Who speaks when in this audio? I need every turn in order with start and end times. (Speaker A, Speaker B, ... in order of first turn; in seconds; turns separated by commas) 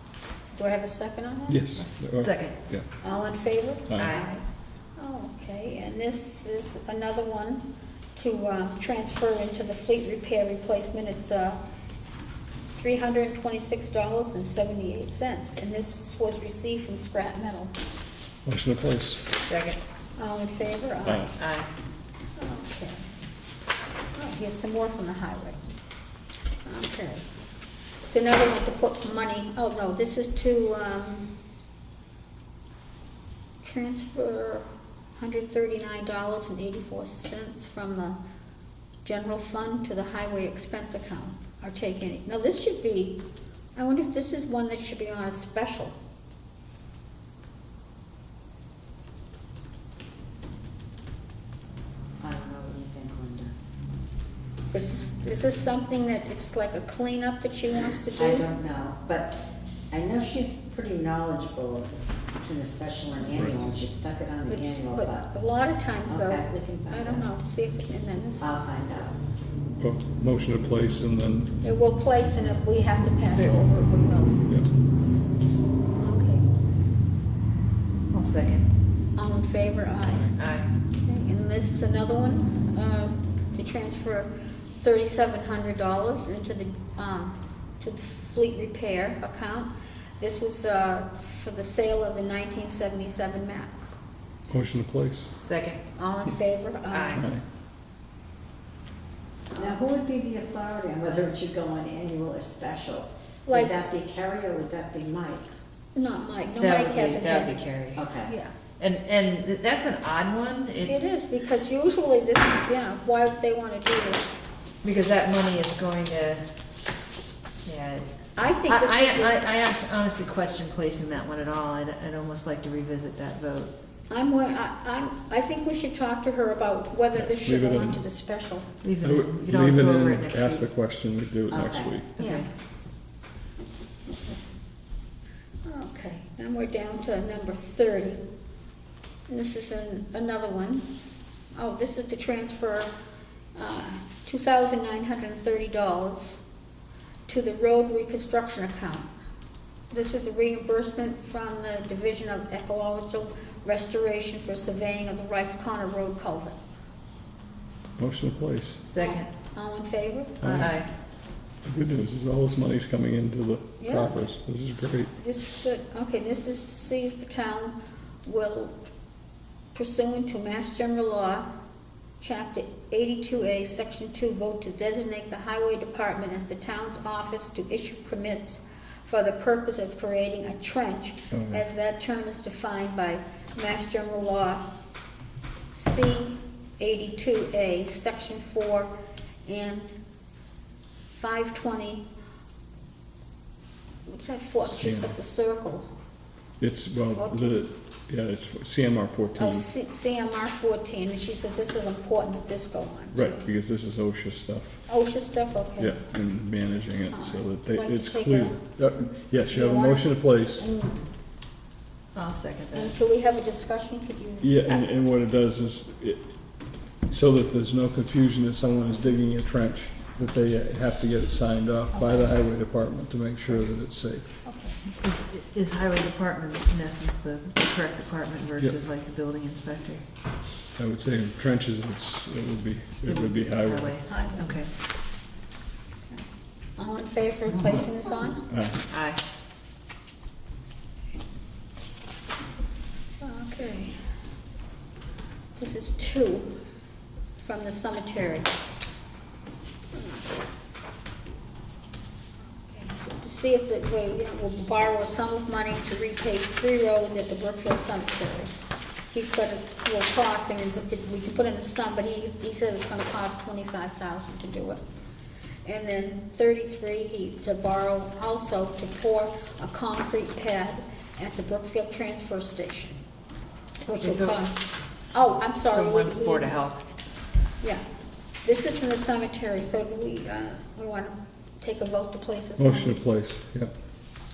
Speaker A: 0.5-1.6, Speaker B: 1.5-2.9, Speaker C: 1.7-2.6, Speaker A: 3.0-4.4, Speaker B: 3.9-4.2, Speaker C: 4.0-4.4, Speaker A: 5.0-11.6, Speaker A: 12.7-17.7, Speaker B: 18.4-19.2, Speaker C: 19.4-19.8, Speaker A: 20.1-21.3, Speaker C: 21.3-21.7, Speaker A: 22.4-23.0, Speaker A: 24.1-25.7, Speaker A: 26.6-27.2, Speaker A: 28.1-31.3, Speaker A: 33.6-34.6, Speaker A: 35.1-38.2, Speaker A: 39.0-43.2, Speaker A: 43.8-45.9, Speaker D: 52.2-53.5, Speaker A: 54.7-58.5, Speaker D: 58.1-59.4, Speaker D: 59.9-65.3, Speaker A: 64.5-68.5, Speaker D: 66.1-67.3, Speaker D: 68.4-69.2, Speaker B: 69.8-71.5, Speaker A: 71.6-74.4, Speaker A: 76.0-76.5, Speaker C: 78.1-78.7, Speaker A: 79.2-80.3, Speaker B: 80.0-80.3, Speaker C: 80.3-80.7, Speaker A: 81.0-93.8, Speaker B: 94.5-95.3, Speaker C: 95.4-95.8, Speaker A: 96.0-97.3, Speaker C: 96.9-97.3, Speaker B: 97.1-97.4, Speaker D: 99.5-105.5, Speaker A: 103.5-103.8, Speaker A: 105.9-107.6, Speaker C: 106.6-108.1, Speaker D: 107.9-108.3, Speaker A: 108.2-108.5, Speaker C: 108.8-111.0, Speaker A: 110.8-114.3, Speaker C: 114.8-116.4, Speaker C: 117.6-118.0, Speaker A: 118.3-119.4, Speaker C: 118.6-123.7, Speaker A: 124.1-128.7, Speaker B: 127.1-128.0, Speaker C: 128.8-130.7, Speaker B: 129.0-132.1, Speaker D: 131.5-132.0, Speaker A: 132.2-132.4, Speaker C: 132.2-132.5, Speaker A: 135.6-138.2, Speaker A: 139.3-140.9, Speaker A: 141.5-142.9, Speaker A: 143.6-146.4, Speaker A: 147.2-149.1, Speaker A: 149.9-156.6, Speaker B: 158.0-158.8, Speaker C: 158.9-159.3, Speaker A: 159.0-160.8, Speaker B: 160.4-160.7, Speaker C: 160.6-160.9, Speaker B: 161.6-165.1, Speaker A: 163.8-164.2, Speaker A: 165.1-168.8, Speaker A: 169.7-171.4, Speaker A: 172.2-184.6, Speaker B: 181.3-181.6, Speaker A: 185.7-188.9, Speaker A: 189.4-189.9, Speaker A: 191.1-192.1, Speaker A: 194.1-195.8, Speaker B: 194.6-195.2, Speaker B: 196.6-199.7, Speaker A: 197.0-197.5, Speaker A: 199.3-203.4, Speaker B: 203.1-204.8, Speaker A: 204.9-206.0, Speaker B: 205.8-210.7, Speaker A: 207.1-208.6, Speaker A: 209.4-211.0, Speaker C: 212.1-212.9, Speaker A: 212.7-214.8, Speaker B: 214.4-224.4, Speaker A: 221.9-222.3, Speaker A: 224.4-224.8, Speaker C: 225.0-230.0, Speaker B: 230.7-234.0, Speaker C: 233.0-234.7, Speaker A: 234.1-234.6, Speaker A: 236.8-238.4, Speaker B: 238.5-238.8, Speaker C: 238.9-239.2, Speaker A: 243.2-243.9, Speaker A: 245.6-246.5, Speaker A: 247.4-248.5, Speaker A: 249.9-250.2, Speaker A: 252.5-258.6, Speaker A: 259.1-264.8, Speaker A: 265.6-273.0, Speaker A: 273.8-274.6, Speaker C: 273.9-274.4, Speaker A: 275.1-276.6, Speaker C: 275.7-276.8, Speaker A: 278.4-283.0, Speaker B: 282.6-283.7